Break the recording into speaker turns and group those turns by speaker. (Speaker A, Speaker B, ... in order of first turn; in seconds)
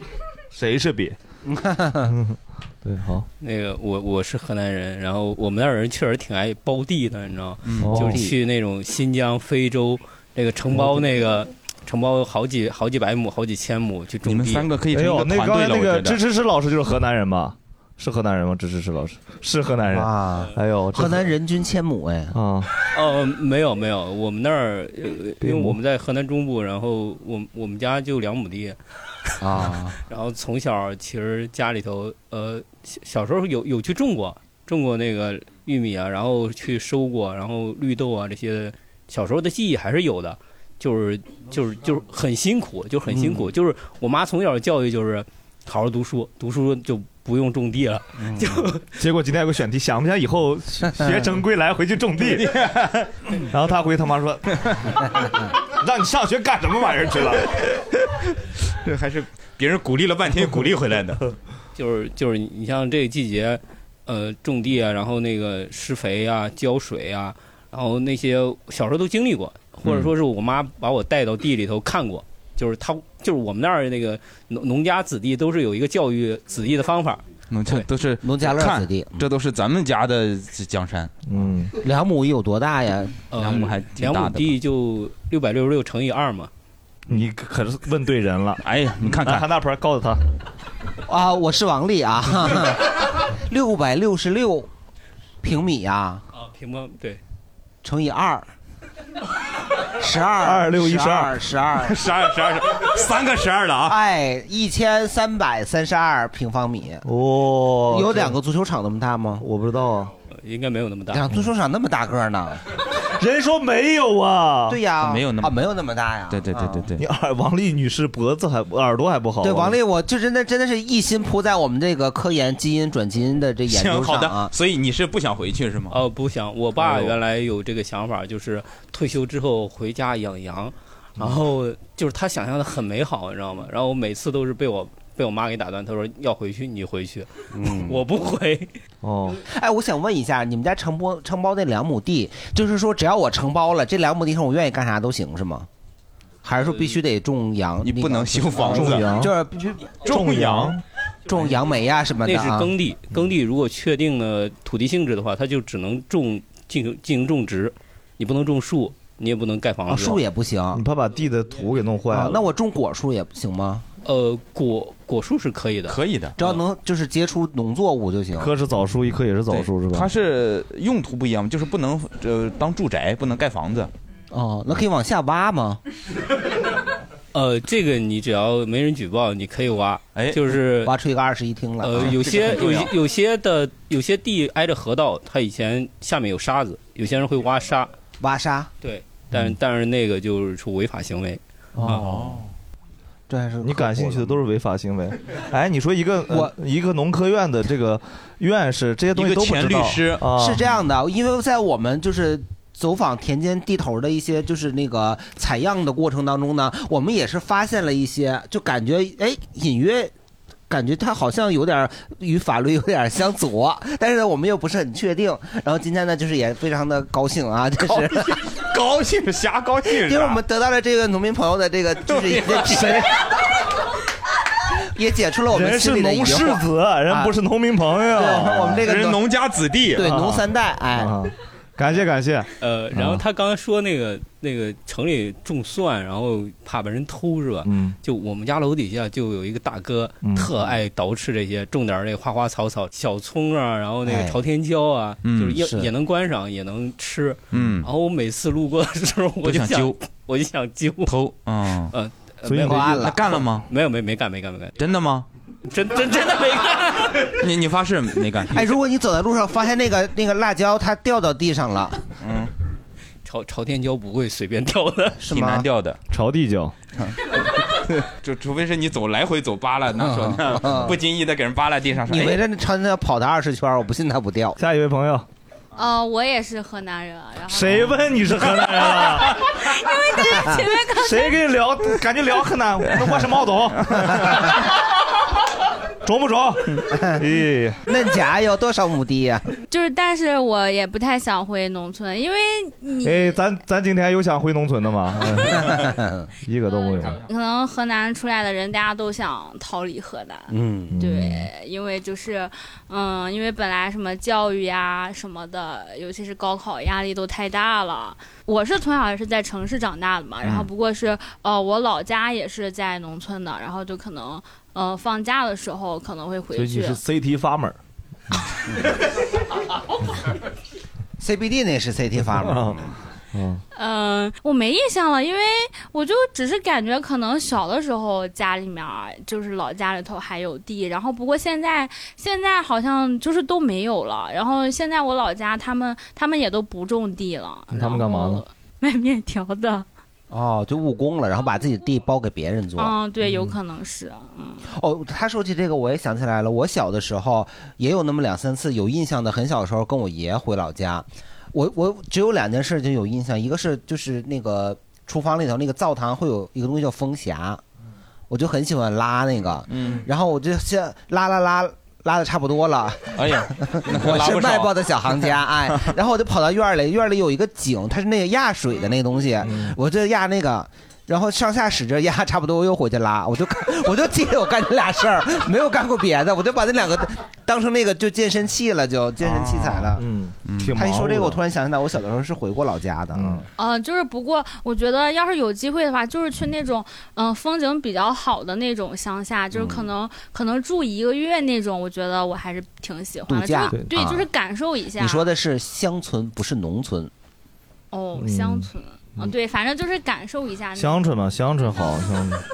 Speaker A: 0.5-1.2, 2.0-3.3, 7.8-8.2, 14.9-21.3, 22.3-22.7, 25.4-25.8, 49.0-52.6, 53.5-54.6, 55.8-57.5, 81.3-81.7, 87.1-90.2, 100.4-101.4, 107.0-108.4, 109.4-110.1, 113.2-114.8, 117.0-119.8, 139.0-139.4, 148.7-149.3, 150.1-150.8, 160.7-162.4, 168.4-170.1, 193.6-200.6, 225.5-228.8, 230.0-230.4, 231.0-233.2, 237.7-238.0, 240.2-240.5, 252.4-252.9, 266.1-266.8, 274.6-275.3, 277.5-279.4, 280.9-284.6, 286.0-287.8, 293.0-295.8, 296.4-297.2, 300.9-301.5, 316.6-317.8, 322.4-323.6, 337.7-338.4, 343.2-343.5, 369.4-369.8, 379.2-381.4, 383.1-383.4, 398.2-399.3, 400.8-402.4
Speaker B: 1.5-2.1, 7.9-8.3, 19.9-22.4, 29.4-30.0, 43.1-43.5, 78.2-79.2, 81.8-83.2, 91.1-94.7, 95.4-96.2, 97.8-98.5, 100.0-102.0, 103.9-107.0, 107.9-109.5, 111.1-112.6, 114.7-116.9, 119.4-124.5, 137.5-138.0, 139.4-145.7, 146.4-150.0, 151.3-152.7, 159.9-160.8, 162.1-163.8, 166.4-168.5, 174.3-175.8, 180.8-182.4, 188.2-188.7, 191.8-192.4, 193.3-194.4, 200.3-210.1, 210.7-218.4, 219.9-223.3, 224.9-227.3, 228.2-229.2, 229.9-231.1, 244.1-244.4, 245.6-245.9, 252.6-253.2, 258.5-262.0, 265.2-265.7, 270.0-271.0, 272.1-274.6, 280.2-280.7, 287.9-289.5, 295.5-296.3, 300.5-301.0, 321.2-322.8, 340.3-343.0, 344.7-357.6, 358.3-380.0, 380.8-383.5, 389.5-389.9, 393.3-394.3, 394.9-397.1
Speaker C: 3.4-14.7, 22.9-28.8, 30.1-48.8, 61.8-77.8, 83.3-86.5, 96.4-97.2, 110.5-111.2, 125.9-138.7, 152.2-160.2, 164.1-166.5, 177.3-180.9, 181.8-187.9, 188.8-191.4, 232.6-251.1, 251.9-253.1, 253.7-254.7, 255.7-257.1, 263.3-265.2
Speaker D: 7.6-7.9, 14.2-16.2, 52.3-53.0, 58.8-61.2, 69.8-70.1, 77.5-81.1, 83.3-84.6, 88.6-89.5, 101.8-104.0, 115.0-115.6, 116.3-117.0, 123.7-126.0, 126.8-127.2, 147.8-149.1, 150.1-150.8, 165.9-166.4, 169.5-173.9, 180.2-180.4, 182.0-182.9, 191.9-192.4, 199.2-200.2, 217.9-220.4, 222.1-223.0, 228.9-230.1, 245.2-245.6, 247.5-247.9, 249.4-250.0, 251.1-251.9, 252.9-253.7, 254.8-255.3, 257.2-258.6, 262.2-262.5, 265.3-266.0, 267.0-272.4, 359.7-360.1, 363.2-365.9, 380.5-380.8
Speaker E: 275.8-277.9, 278.6-281.4, 289.7-293.4, 296.7-317.0, 323.8-339.9, 342.8-344.6, 383.6-395.3, 397.9-401.1